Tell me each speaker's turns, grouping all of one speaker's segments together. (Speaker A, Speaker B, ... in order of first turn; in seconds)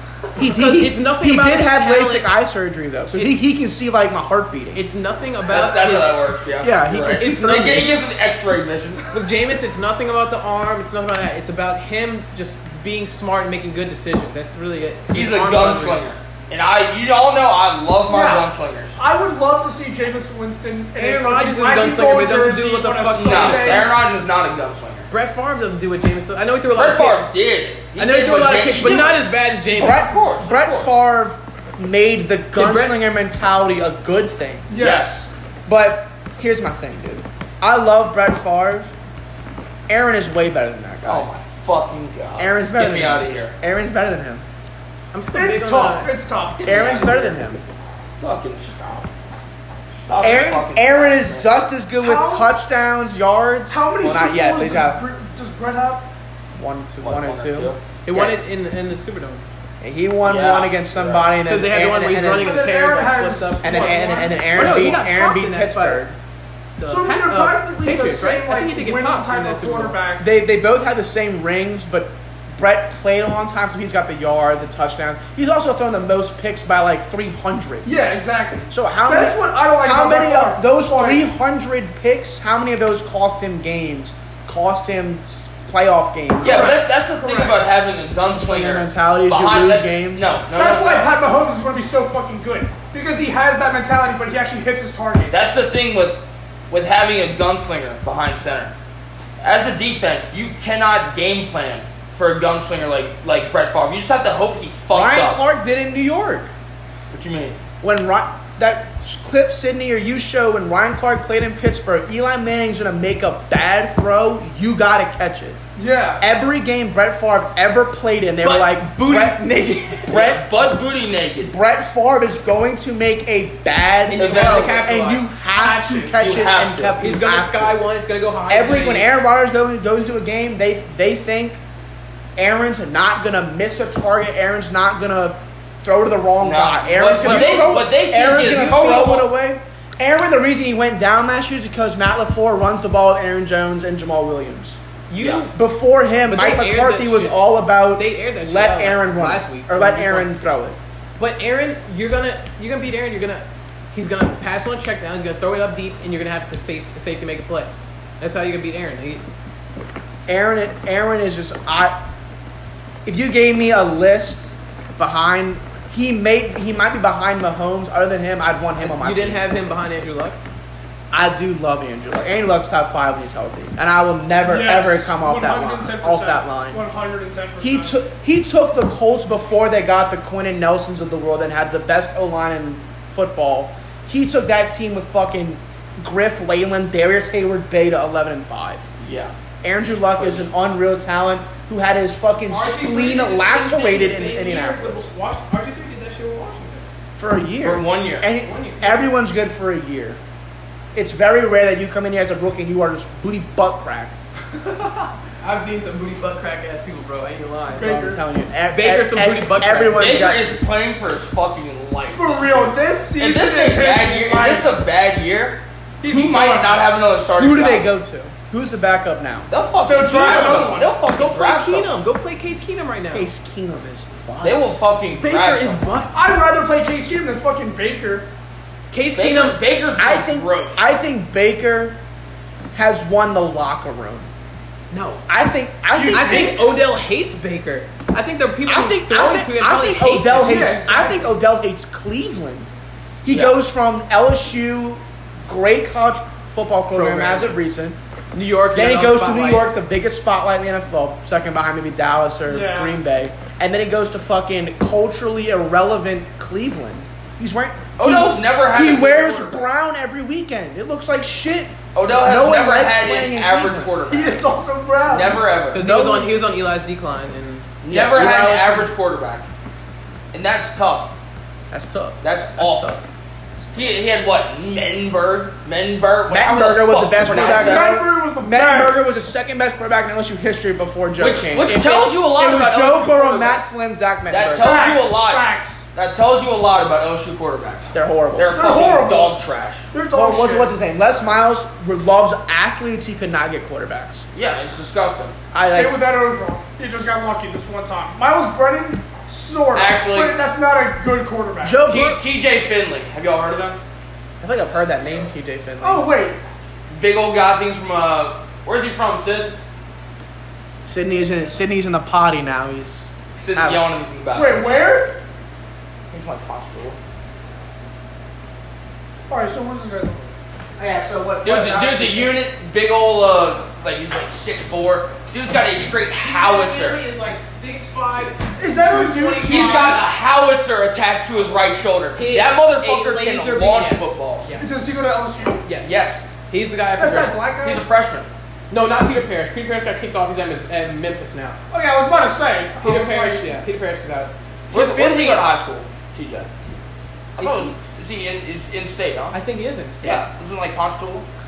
Speaker A: 0.4-2.3, 3.1-3.4, 4.8-6.2, 7.2-7.9, 9.1-16.0, 21.0-23.9, 25.1-27.4, 28.0-30.1, 32.5-33.0, 45.1-46.2, 46.7-47.3, 58.0-59.5, 61.5-63.8, 64.5-66.0, 66.8-70.0, 118.4-120.2, 124.1-125.3, 127.0-129.1, 137.2-137.7, 145.1-145.6, 146.3-150.3, 151.2-159.2, 168.8-170.4, 192.5-196.9, 198.4-199.1, 204.7-208.1, 208.7-210.3, 221.1-223.3, 225.1-226.2, 228.9-229.6, 234.9-235.2, 236.1-240.7, 246.9-247.6, 248.3-249.7, 265.7-267.7, 326.1-330.0, 332.2-334.7, 335.6-336.0, 336.5-337.4, 338.7-341.6, 342.8-345.5, 347.4-347.7, 349.3-350.2
Speaker B: 0.4-4.8, 6.6-8.0, 29.8-34.7, 35.7-38.9, 39.9-41.3, 42.4-44.4, 46.6-47.6, 50.2-55.0, 56.5-58.4, 59.8-62.6, 63.6-66.2, 70.2-77.9, 78.7-86.8, 88.3-90.3, 104.9-106.5, 107.8-115.6, 116.2-120.5, 121.5-127.8, 128.5-131.6, 132.4-144.8, 145.5-150.8, 160.3-162.0, 163.1-169.4, 171.1-176.8, 177.6-188.9, 189.6-195.1, 197.2-200.2, 200.9-204.2, 207.9-210.5, 217.4-219.5, 223.1-224.8, 230.0-232.0, 232.7-234.3, 235.3-236.8, 238.7-242.7, 243.2-248.0, 248.7-263.9, 265.8-266.4, 267.9-268.9, 271.7-273.0, 273.6-273.9, 276.3-284.9, 287.9-289.0, 290.1-294.3, 295.5-296.0, 301.6-302.2, 304.4-306.1, 310.9-313.8, 320.8-322.4
Speaker C: 5.5-9.3, 15.1-19.0, 23.1-25.1, 26.7-29.2, 29.8-31.0, 34.7-35.3, 41.0-43.5, 48.2-49.1, 49.9-51.5, 57.0-57.8, 60.3-61.3, 86.4-91.1, 95.3-98.7, 99.4-105.4, 107.1-107.6, 120.1-121.5, 124.2-124.9, 126.1-127.0, 136.4-139.3, 145.2-145.5, 189.0-189.3, 189.9-190.5, 197.6-198.3, 209.9-217.9, 219.5-222.0, 224.4-225.9, 229.2-230.8, 243.3-243.6, 258.0-259.3, 261.9-264.5, 265.1-265.8, 267.8-269.5, 270.3-271.1, 272.2-273.0, 273.7-278.0, 281.2-283.6, 284.3-289.9, 294.3-295.4, 299.7-300.4, 301.9-303.8, 306.9-309.6, 313.4-314.8, 316.1-317.0, 321.4-327.0, 329.4-334.5, 335.8-336.2, 337.6-338.3, 344.7-346.5, 347.4-349.4, 350.0-351.3
Speaker D: 18.1-23.9, 34.7-35.2, 45.3-47.3, 52.0-52.5, 53.7-56.1, 62.4-65.0, 66.9-70.3, 77.8-81.2, 86.4-87.6, 90.5-95.3, 115.8-116.2, 125.5-126.2, 174.4-178.0, 207.8-208.2, 212.1-214.7, 216.0-216.9, 219.8-220.9, 226.1-228.3, 235.9-236.6, 240.4-241.2, 252.5-253.0, 258.8-259.6, 264.1-265.4, 277.3-279.1, 284.6-285.9, 288.5-289.4, 289.9-290.7, 295.7-301.8, 305.8-306.4, 314.4-315.2, 319.3-320.3, 328.6-330.0, 334.6-335.6, 337.0-337.9, 341.7-343.6